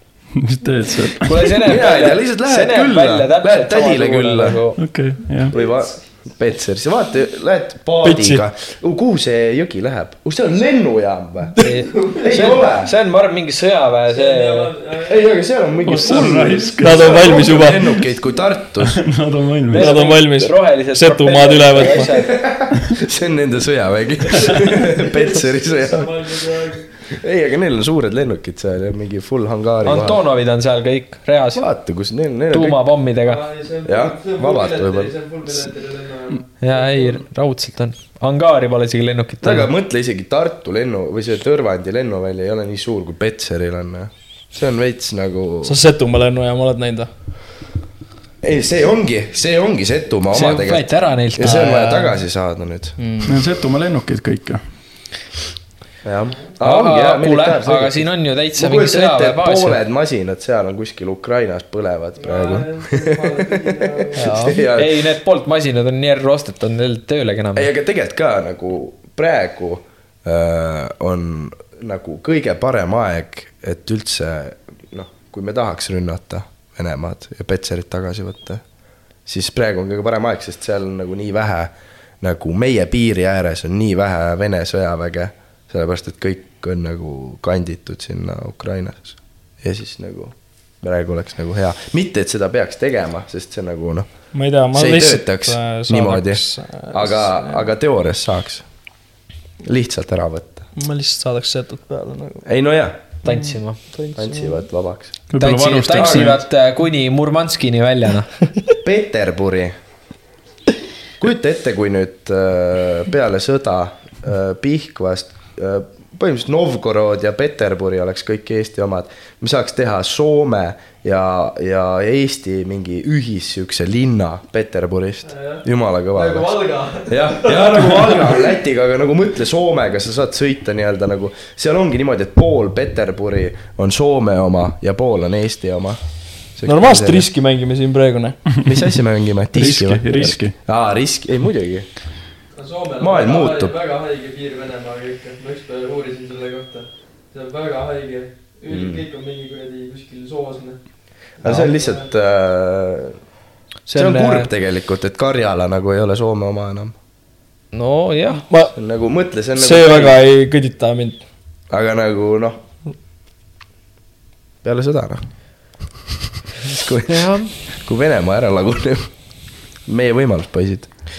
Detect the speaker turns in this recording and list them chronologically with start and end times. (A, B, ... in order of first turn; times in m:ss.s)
0:00.4-0:01.6 A
0:01.2-0:04.8 B
0:01.6-0:04.6 C
0:04.8-0:05.5 A
0:05.5-0:12.9 C
0:08.0-0:08.4 D
0:11.6-0:14.7 B
0:11.9-0:12.7 E
0:14.1-0:16.6 E
0:15.1-0:19.0 C
0:15.9-0:17.4 A
0:16.8-0:18.0 D
0:18.8-0:20.0 A
0:19.7-0:22.4 B
0:19.7-0:22.1 D
0:21.8-0:30.2 C
0:25.4-0:26.9 E
0:29.8-0:31.6 B
0:31.6-0:32.8 C
0:32.5-0:33.4 B
0:33.2-0:37.2 E
0:33.8-0:35.1 C
0:36.6-0:39.7 B
0:39.4-0:45.8 C
0:45.6-0:47.1 D
0:48.4-0:53.0 C
0:50.3-0:51.8 B
0:51.4-0:52.2 D
0:53.0-0:53.4 D
0:53.2-0:54.6 A
0:56.0-1:05.0 C
0:56.6-0:59.8 B
1:02.2-1:04.5 E
1:04.2-1:07.7 B
1:07.6-1:18.6 C
1:19.3-1:34.1 C
1:34.3-1:37.6 D
1:34.7-1:38.7 C
1:39.6-1:40.7 C
1:40.8-1:42.4 D
1:42.4-1:43.0 C
1:43.2-1:43.8 B
1:43.2-1:44.6 D
1:44.1-1:45.2 C
1:45.3-1:46.4 A
1:45.4-1:48.3 B
1:45.9-1:46.3 C
1:48.8-1:49.7 C
1:51.2-2:17.3 C
2:05.2-2:08.4 E
2:16.7-2:18.6 D
2:18.6-2:21.9 C
2:19.5-2:20.6 A
2:20.0-2:20.4 D
2:22.5-2:32.1 E
2:23.0-2:23.8 C
2:28.7-2:29.0 C
2:31.4-2:33.2 C
2:33.9-2:34.5 B
2:33.9-2:36.9 C
2:37.7-2:38.4 B
2:38.5-2:38.8 D
2:38.8-2:40.2 C
2:39.6-2:41.2 D
2:41.7-2:42.6 C
2:44.6-2:45.3 C
2:46.7-2:49.1 C
2:47.0-2:47.6 B
2:49.9-2:50.9 C